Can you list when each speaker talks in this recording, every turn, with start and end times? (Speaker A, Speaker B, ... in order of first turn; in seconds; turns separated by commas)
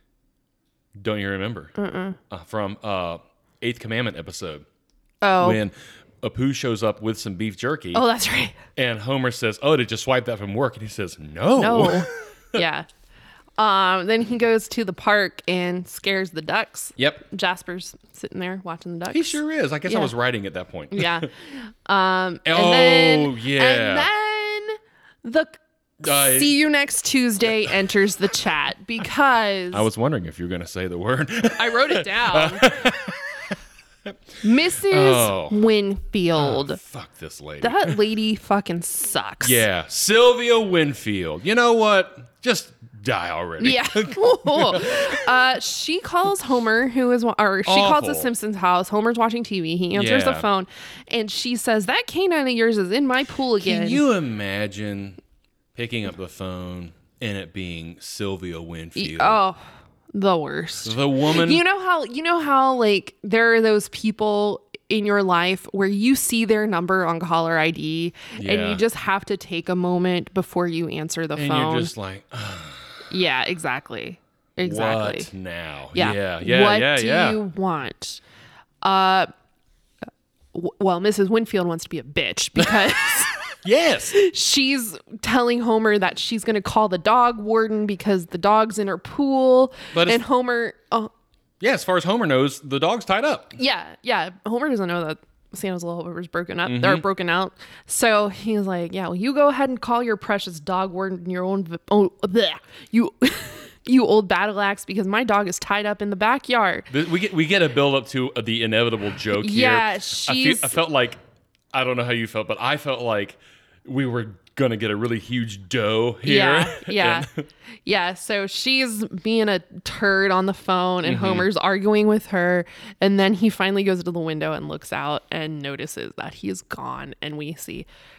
Speaker A: 1.0-1.7, Speaker B: 1.8-2.2, Speaker A: 2.3-4.6, Speaker B: 5.2-5.6, Speaker A: 5.4-8.0, Speaker B: 7.9-8.6, Speaker A: 8.8-12.6, Speaker B: 11.6-12.9, Speaker B: 13.6-20.1, Speaker A: 19.1-21.3, Speaker B: 20.9-29.9, Speaker A: 22.4-24.1, Speaker A: 26.0-26.5, Speaker A: 29.7-34.2, Speaker B: 31.6-32.7, Speaker B: 34.4-36.8, Speaker A: 34.7-35.6, Speaker A: 36.4-38.0, Speaker B: 37.6-39.6, Speaker A: 39.4-45.3, Speaker B: 43.6-54.0, Speaker A: 47.6-48.3, Speaker A: 49.9-50.5, Speaker A: 53.6-55.2, Speaker A: 55.7-59.4, Speaker B: 59.0-59.6, Speaker B: 60.1-71.9, Speaker A: 60.8-61.6, Speaker A: 68.3-68.8, Speaker A: 71.3-73.0, Speaker B: 73.1-75.3, Speaker A: 74.6-77.4, Speaker B: 75.9-78.2, Speaker B: 78.8-79.3, Speaker B: 80.5-83.3, Speaker A: 83.5-84.1, Speaker B: 84.1-91.1, Speaker A: 89.9-90.2, Speaker A: 91.6-93.5, Speaker B: 93.6-106.9, Speaker A: 96.7-97.0, Speaker A: 106.9-111.2, Speaker B: 109.3-110.8, Speaker A: 111.7-117.4, Speaker B: 116.2-117.3, Speaker B: 117.8-127.9, Speaker A: 121.0-121.5